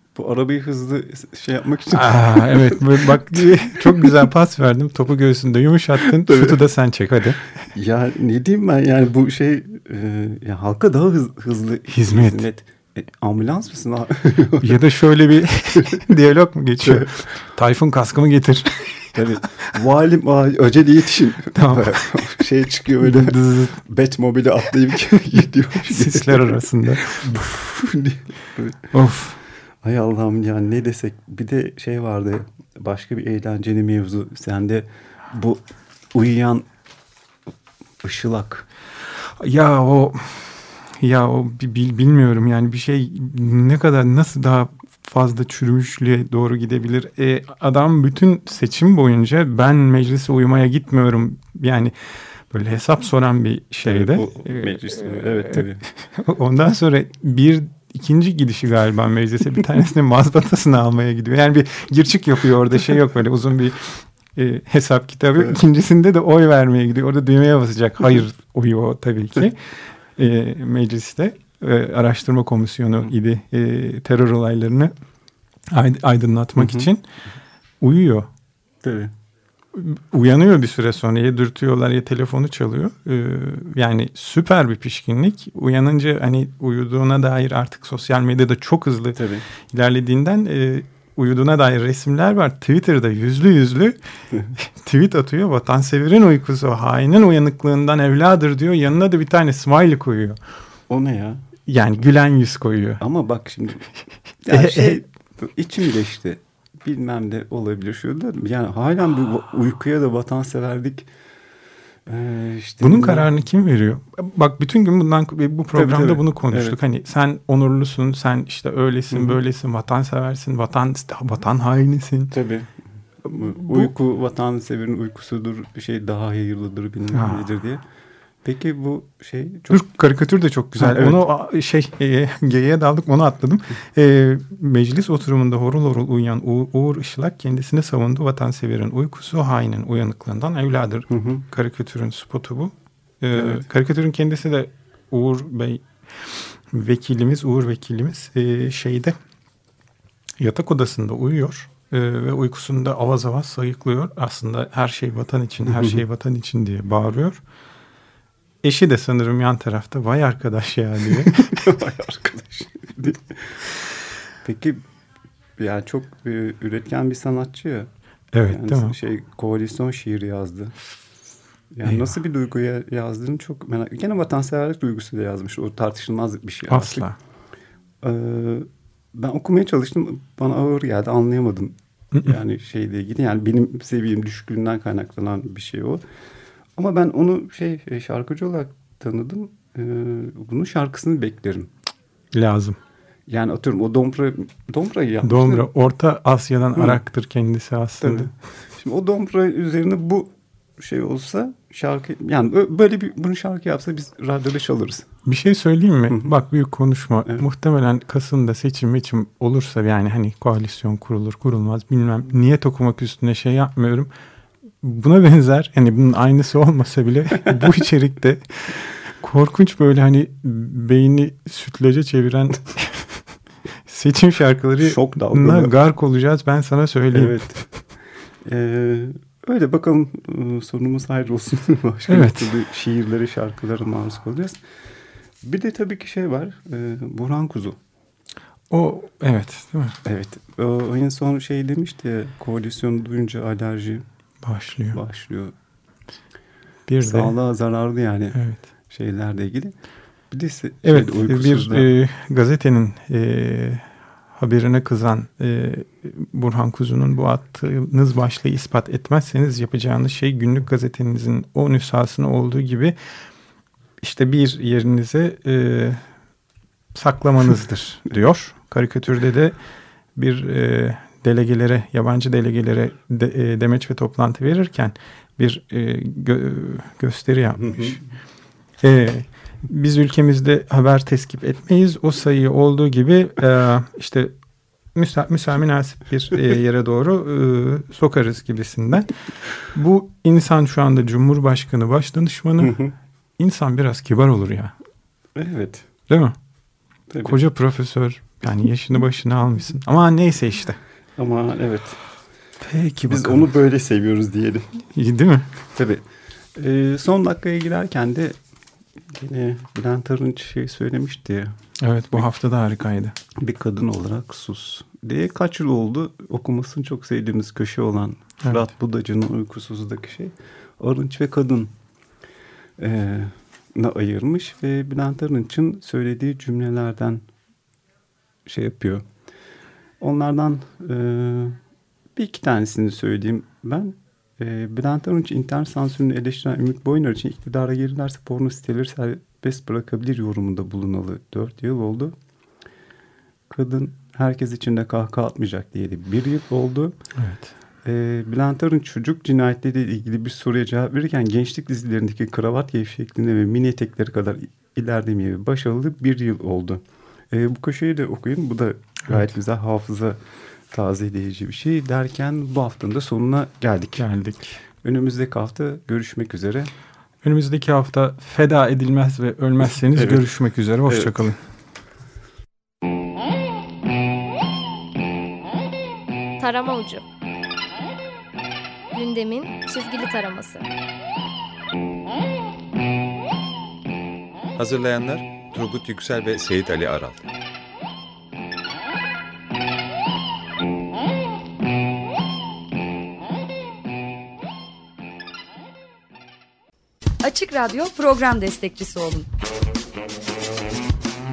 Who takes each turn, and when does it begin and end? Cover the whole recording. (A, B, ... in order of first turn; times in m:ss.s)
0:00.1-0:04.2 A
0:01.9-0:07.4 B
0:06.2-0:06.5 A
0:07.7-0:14.8 A
0:11.9-0:12.4 B
0:14.6-0:19.2 B
0:15.7-0:16.0 A
0:16.8-0:17.1 A
0:19.1-0:28.8 A
0:21.5-0:22.2 B
0:23.0-0:23.7 B
0:25.8-0:27.2 B
0:28.9-0:29.4 B
0:29.8-0:35.6 A
0:36.1-0:36.7 A
0:38.0-0:38.7 A
0:39.1-1:14.9 B
0:53.8-0:55.8 A
1:15.7-1:17.1 B
1:16.6-1:16.9 A
1:17.8-1:18.3 B
1:18.8-1:19.1 A
1:19.7-1:34.0 B
1:29.1-1:29.4 A
1:34.5-1:40.4 B
1:40.9-1:41.4 A
1:41.7-1:43.0 B
1:43.0-1:43.9 A
1:44.4-1:51.1 A
1:44.5-1:45.0 B
1:52.1-1:53.3 A
1:52.8-2:02.3 B
1:55.7-1:56.8 A
1:59.1-1:59.4 A
2:02.3-2:02.7 A
2:03.2-2:07.8 A
2:03.3-2:03.9 B
2:07.1-2:07.4 B
2:08.4-2:09.9 A
2:09.7-2:29.2 B
2:10.8-2:11.2 A
2:21.1-2:21.4 A
2:23.3-2:23.6 A
2:30.4-2:37.4 B
2:35.6-2:36.0 A
2:38.6-2:41.8 B
2:41.4-2:43.6 A
2:44.4-2:44.8 A
2:45.6-2:47.9 A
2:48.3-2:48.9 B
2:48.4-2:50.8 A
2:51.7-2:57.0 A
2:56.7-2:57.2 B
2:58.0-3:06.0 A
3:02.1-3:02.4 B
3:06.8-3:11.7 A
3:12.3-3:12.8 B
3:13.3-3:15.7 A
3:15.2-3:18.3 B
3:18.0-3:25.1 A
3:25.2-3:34.1 B
3:34.8-3:43.2 B
3:43.8-3:47.5 B
3:44.8-3:45.7 A
3:47.1-3:47.6 A
3:48.4-3:54.6 A
3:52.1-3:52.5 B
3:55.4-3:57.8 A
3:58.7-4:00.0 B
4:00.0-4:04.0 A
4:04.4-4:05.0 B
4:04.9-4:05.5 A
4:06.9-4:07.3 B
4:07.0-4:09.7 A
4:08.3-4:08.6 B
4:10.3-4:11.9 A
4:10.8-4:23.0 B
4:24.0-4:26.0 B
4:26.9-4:29.6 B
4:30.2-4:38.0 B
4:37.6-4:38.0 A
4:38.8-4:44.4 B
4:44.9-4:52.8 B
4:52.6-4:52.9 A
4:53.4-4:54.7 B
4:55.4-4:55.9 A
4:56.1-4:56.3 B
4:57.1-4:57.4 A
4:57.2-5:00.8 B
5:01.2-5:02.0 A
5:02.6-5:03.5 B
5:03.0-5:04.7 A
5:04.9-5:05.5 B
5:05.7-5:06.0 A
5:06.5-5:08.4 A
5:09.1-5:11.6 A
5:11.8-5:13.2 B
5:13.4-5:21.7 A
5:22.8-5:27.2 A
5:28.4-5:29.0 A
5:30.0-5:31.6 A
5:32.2-5:42.1 A
5:43.5-5:47.0 A
5:47.2-5:47.5 B
5:47.8-6:04.1 A
6:04.0-6:04.6 B
6:04.8-6:06.7 A
6:07.2-6:11.4 B
6:09.6-6:10.3 A
6:10.8-6:11.1 A
6:16.4-6:17.0 C
6:18.9-6:20.6 C
6:24.6-6:27.2 D
6:37.2-6:39.3 E